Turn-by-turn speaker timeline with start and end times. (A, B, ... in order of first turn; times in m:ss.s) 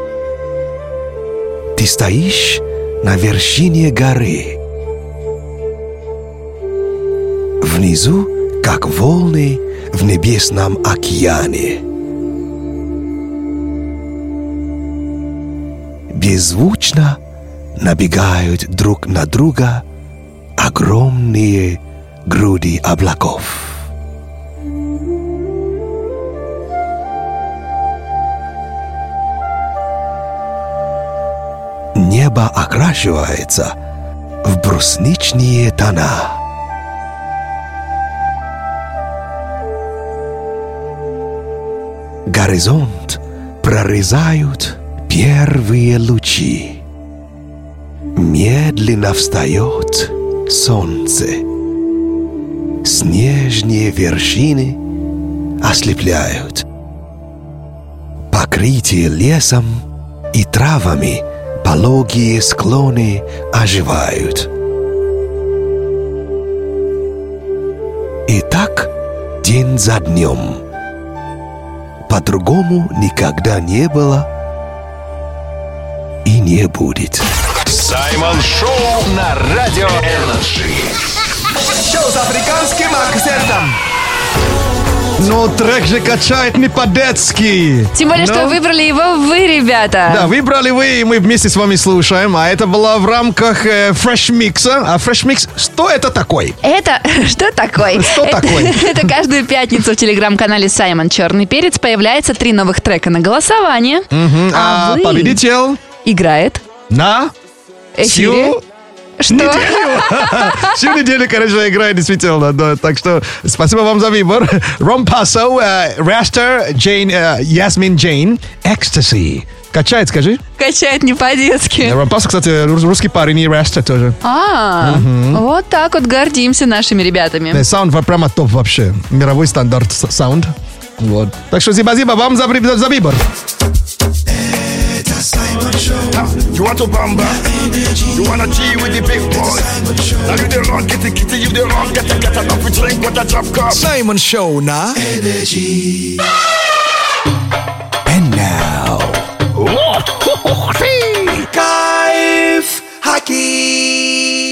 0:01.8-0:04.6 A
0:07.6-0:11.8 A
0:16.1-0:17.2 A
0:17.8-0:19.8 A
0:20.6-0:23.7 A
0:32.0-0:33.7 A
0:34.4-0:36.4 A
0:42.3-0:46.8 A
0:48.2-0:51.4 A
0:52.8-0:54.8 A
0:55.6-0:56.6 A
0:58.3-0:59.8 A
1:00.3-1:04.5 A
1:08.3-1:08.9 A
1:09.4-1:10.6 A
1:12.1-1:14.3 A
1:16.2-1:17.2 A
1:17.6-1:20.9 B
1:21.6-1:23.8 C
1:25.2-1:28.6 C
1:27.9-1:30.3 D
1:30.1-1:36.6 C
1:36.6-1:45.4 D
1:37.8-1:39.1 C
1:44.1-1:45.8 C
1:46.0-1:46.6 D
1:46.9-1:47.3 C
1:47.9-1:48.6 D
1:48.0-1:48.6 C
1:49.2-1:50.7 D
1:49.3-2:00.4 C
2:00.6-2:02.0 D
2:01.8-2:04.2 C
2:04.2-2:07.6 D
2:04.8-2:05.4 C
2:07.5-2:13.2 C
2:14.8-2:16.1 A
2:16.1-2:17.4 E
2:17.5-2:18.0 A
2:18.1-2:19.7 E
2:19.7-2:20.4 A
2:20.2-2:23.8 E
2:23.7-2:25.0 C
2:25.0-2:26.2 A
2:28.1-2:29.2 A
2:30.4-2:31.5 C
2:31.6-2:34.1 A